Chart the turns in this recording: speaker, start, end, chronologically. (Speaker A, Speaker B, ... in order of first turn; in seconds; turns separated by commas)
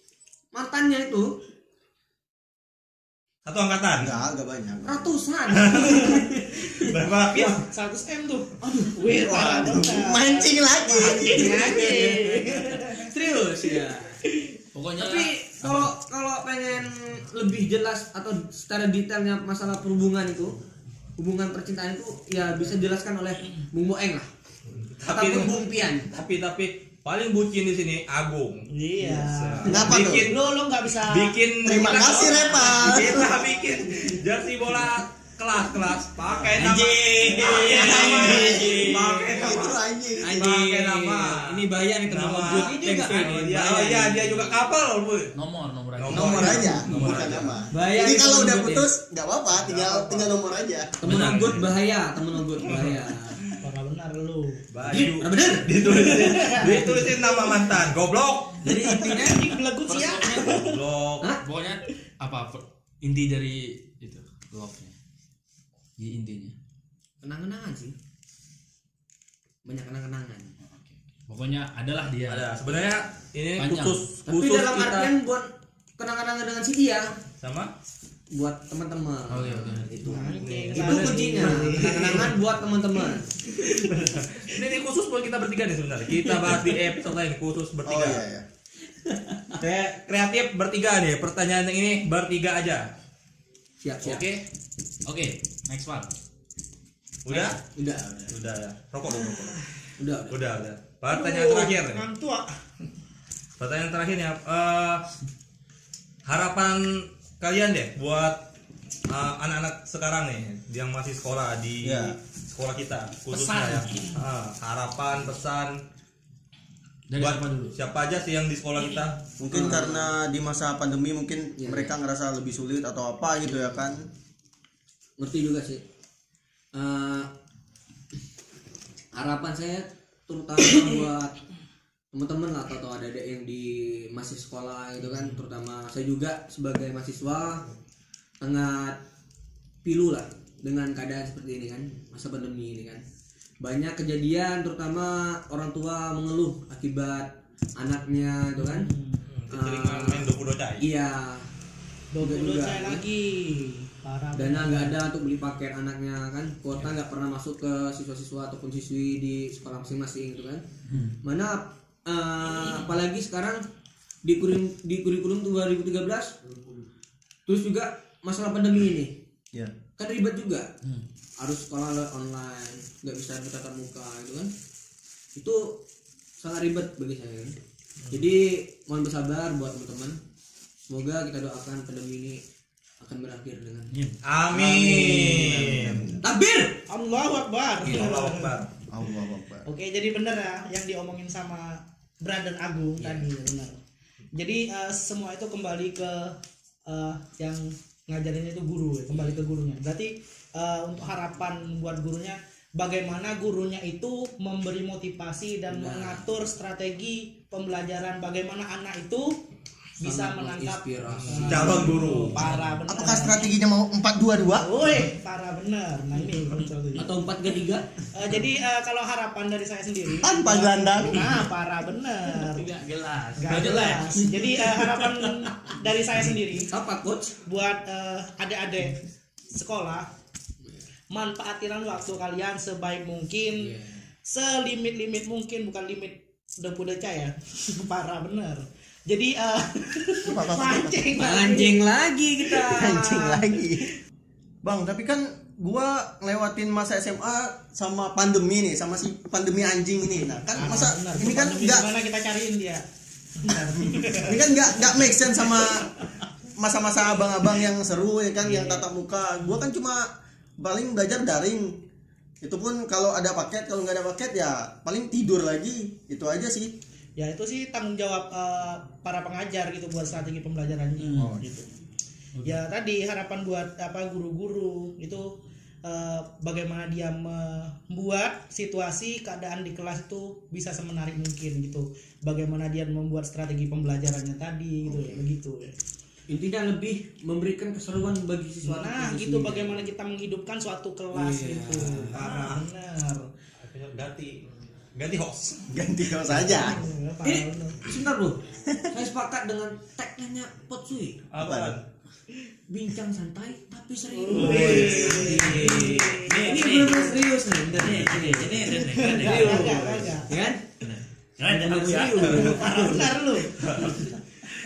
Speaker A: 0.5-1.3, Speaker B: 3.5-4.1, Speaker C: 4.0-5.2, Speaker A: 4.8-6.9, Speaker B: 5.5-6.2, Speaker B: 6.8-7.6, Speaker D: 7.3-13.1, Speaker A: 8.6-8.9, Speaker C: 9.0-12.2, Speaker A: 11.1-12.4, Speaker A: 12.9-14.2, Speaker D: 14.3-14.5, Speaker E: 14.7-15.9, Speaker A: 15.0-20.6, Speaker A: 21.2-24.3, Speaker B: 25.0-30.4, Speaker A: 25.1-26.1, Speaker D: 28.7-33.3, Speaker C: 29.6-30.3, Speaker B: 31.1-45.3, Speaker C: 31.6-33.4, Speaker A: 36.4-39.5, Speaker C: 37.8-40.5, Speaker A: 40.2-44.6, Speaker E: 45.3-47.4, Speaker B: 46.0-47.6, Speaker C: 46.1-50.9, Speaker A: 47.7-48.9, Speaker B: 49.5-50.3, Speaker A: 51.0-53.4, Speaker E: 51.0-51.7, Speaker B: 52.6-53.5, Speaker D: 53.6-54.6, Speaker B: 54.7-58.7, Speaker A: 54.9-56.1, Speaker D: 55.8-57.6, Speaker E: 58.6-60.6, Speaker D: 58.8-60.8, Speaker B: 60.5-61.3, Speaker E: 61.4-64.9, Speaker E: 66.0-66.5, Speaker A: 67.2-67.9, Speaker A: 69.6-70.5, Speaker E: 70.6-72.4, Speaker B: 72.3-75.1, Speaker E: 73.6-74.1, Speaker A: 74.3-77.2, Speaker B: 77.4-77.7, Speaker A: 78.3-83.5, Speaker E: 79.3-80.1, Speaker D: 80.0-82.3, Speaker B: 80.4-82.2, Speaker B: 83.6-88.2, Speaker C: 87.8-88.4, Speaker A: 89.0-89.6, Speaker B: 89.6-92.9, Speaker A: 93.8-94.2, Speaker E: 94.0-94.4, Speaker E: 95.0-96.1, Speaker B: 97.2-97.6, Speaker A: 97.7-98.3, Speaker B: 98.3-99.6, Speaker A: 99.1-100.6, Speaker B: 100.3-102.0, Speaker D: 101.1-102.5, Speaker B: 103.6-105.0, Speaker B: 106.2-108.4, Speaker B: 109.1-115.8, Speaker C: 111.8-112.1, Speaker E: 113.3-114.1, Speaker E: 117.1-117.8, Speaker B: 117.2-119.2, Speaker C: 119.4-124.1, Speaker A: 119.5-120.1, Speaker A: 121.6-122.0, Speaker A: 125.2-125.8, Speaker A: 126.7-127.3, Speaker A: 129.1-131.4, Speaker A: 132.1-137.7, Speaker A: 138.4-139.0, Speaker A: 139.8-143.0, Speaker A: 143.6-148.9, Speaker D: 148.6-149.2, Speaker B: 149.2-150.8, Speaker A: 149.5-150.3, Speaker A: 150.8-151.5, Speaker D: 152.1-155.0, Speaker A: 152.2-153.0, Speaker A: 154.3-160.6, Speaker E: 160.9-161.2, Speaker A: 161.2-163.6, Speaker A: 164.2-166.3, Speaker A: 167.5-169.2, Speaker A: 170.0-170.7, Speaker A: 171.4-174.5, Speaker A: 175.3-175.8, Speaker A: 176.4-177.6, Speaker A: 178.1-180.2, Speaker A: 180.9-182.4, Speaker A: 183.0-183.9, Speaker E: 183.9-184.2, Speaker B: 184.2-186.1, Speaker C: 184.5-186.2, Speaker A: 186.2-186.8, Speaker D: 186.9-188.5, Speaker B: 187.8-188.7, Speaker C: 188.9-189.7, Speaker D: 189.7-193.8, Speaker A: 193.0-193.2, Speaker D: 194.3-196.3, Speaker D: 196.9-209.4, Speaker A: 205.7-206.2, Speaker D: 210.0-213.5, Speaker A: 210.0-212.1, Speaker B: 211.1-212.4, Speaker E: 212.3-212.8, Speaker C: 212.9-214.8, Speaker D: 214.6-217.1, Speaker A: 216.9-217.9, Speaker D: 218.1-222.7, Speaker C: 220.2-221.4, Speaker E: 222.4-224.4, Speaker D: 223.4-226.7, Speaker A: 224.4-224.9, Speaker A: 226.7-227.3, Speaker D: 227.4-229.0, Speaker D: 229.5-230.1, Speaker D: 231.1-233.7, Speaker A: 233.6-234.1, Speaker D: 234.2-241.8, Speaker C: 240.2-241.0, Speaker A: 241.2-243.5, Speaker C: 242.6-243.9, Speaker C: 244.6-251.9, Speaker D: 250.5-252.8, Speaker D: 253.4-254.4, Speaker C: 253.5-255.9, Speaker C: 256.6-260.1, Speaker A: 258.4-258.8, Speaker C: 260.6-261.8, Speaker C: 262.4-266.7, Speaker D: 267.2-271.7, Speaker E: 271.0-271.4, Speaker C: 271.1-271.4, Speaker E: 272.3-272.6, Speaker D: 272.4-285.7, Speaker C: 284.9-285.2, Speaker A: 286.3-289.9, Speaker D: 288.6-293.3, Speaker A: 291.1-292.1, Speaker B: 292.1-292.6, Speaker B: 293.6-295.7, Speaker C: 295.7-296.8, Speaker B: 296.2-296.5, Speaker D: 296.4-297.9, Speaker A: 297.2-298.4, Speaker C: 298.6-298.9, Speaker A: 298.9-301.2, Speaker B: 301.3-301.8, Speaker C: 301.4-301.8, Speaker A: 302.7-310.7, Speaker D: 304.1-306.6, Speaker B: 304.3-306.6, Speaker E: 305.3-309.9, Speaker D: 308.7-310.3, Speaker B: 309.4-310.1, Speaker E: 310.8-312.6, Speaker A: 311.4-313.3, Speaker B: 312.2-312.6, Speaker D: 312.4-313.5, Speaker B: 313.5-314.2